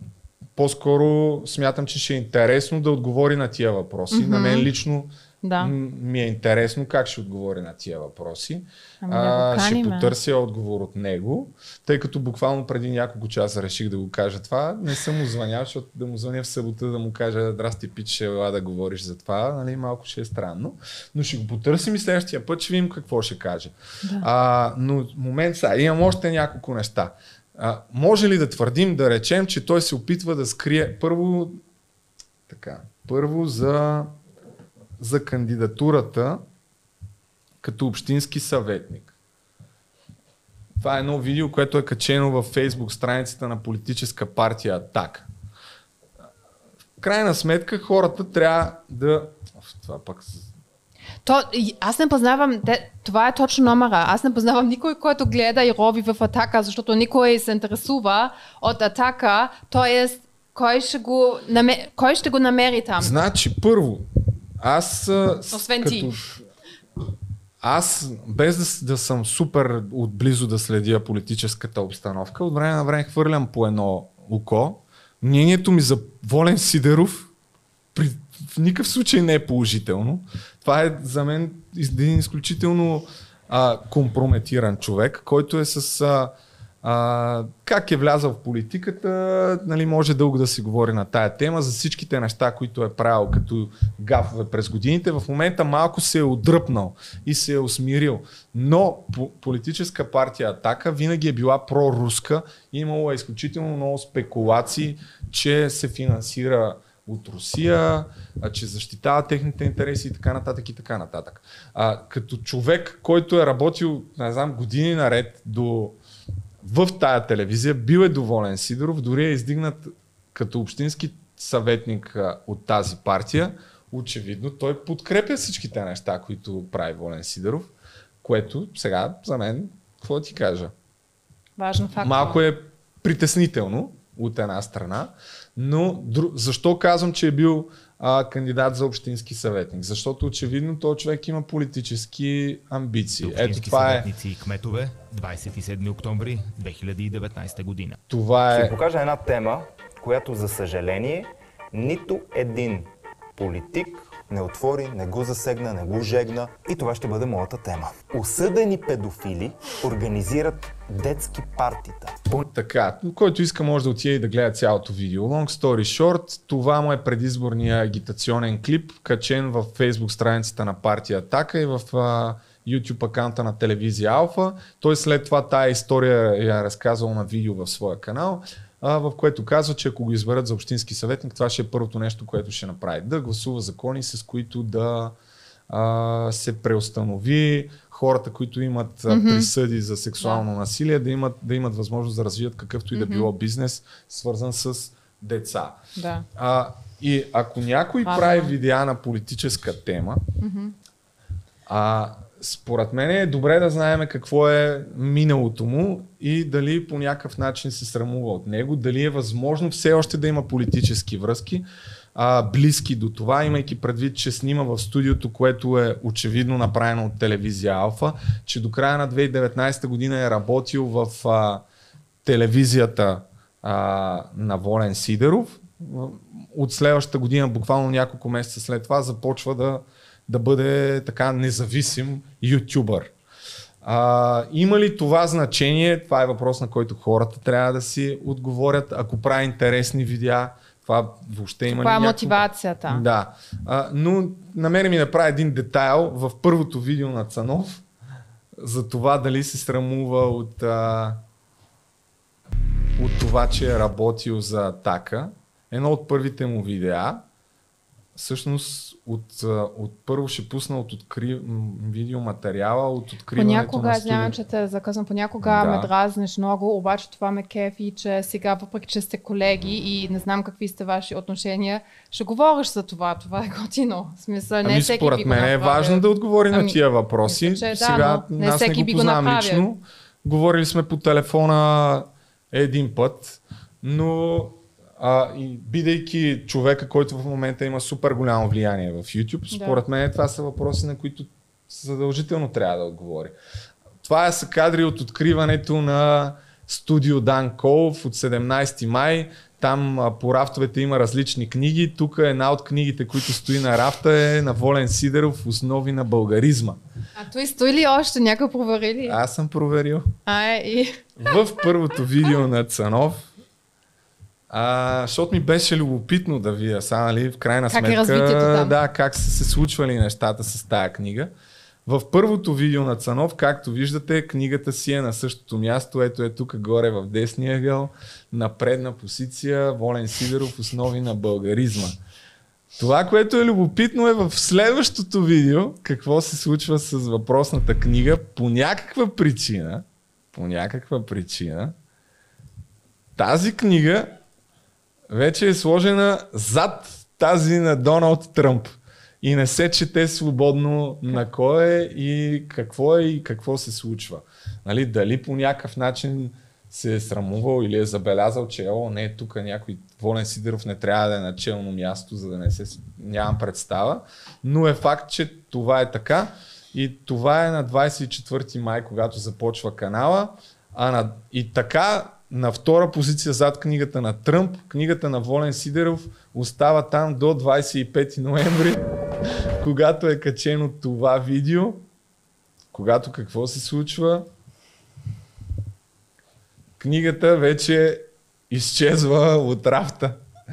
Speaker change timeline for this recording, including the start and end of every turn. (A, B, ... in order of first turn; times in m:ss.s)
0:00.6-0:31.6 A
0:04.1-0:04.7 B
0:05.4-0:05.7 B
0:09.0-0:10.2 B
0:32.5-0:34.1 A
0:35.0-0:36.4 A
0:37.6-0:39.1 A
0:40.8-0:45.3 A
0:47.0-0:50.5 A
0:51.2-1:03.2 B
1:03.0-1:04.1 A
1:04.6-1:06.4 A
1:05.5-1:06.1 B
1:07.6-1:17.3 A
1:18.0-1:56.0 A
1:56.6-2:07.7 A
2:08.2-2:10.7 A
2:11.6-2:12.4 B
2:12.0-2:24.1 A
2:23.2-2:28.0 C
2:28.1-2:28.8 A
2:28.5-2:42.4 D
2:42.4-3:05.2 A
3:05.7-3:15.8 A
3:09.1-3:09.5 B
3:12.9-3:13.3 B
3:16.0-3:16.3 B
3:16.4-3:20.2 A
3:18.0-3:18.5 B
3:20.4-3:20.8 B
3:21.7-3:41.6 A
3:42.2-3:53.1 A
3:53.8-4:07.8 A
4:01.8-4:03.0 B
4:08.6-4:11.2 A
4:13.0-4:17.2 A
4:18.2-4:24.4 A
4:23.3-4:39.7 B
4:25.4-4:25.9 A
4:34.6-4:53.3 A
4:49.5-4:49.8 B
4:54.0-5:06.8 A
5:07.2-5:09.2 B
5:09.1-5:10.1 A
5:10.3-5:11.1 B
5:11.2-5:13.3 A
5:14.5-5:21.3 A
5:17.7-5:18.8 B
5:21.9-5:32.0 A
5:32.8-5:41.8 A
5:43.2-5:44.2 A
5:45.1-6:18.8 A
6:19.6-6:21.9 A
6:22.7-6:24.3 A
6:26.8-6:30.2 A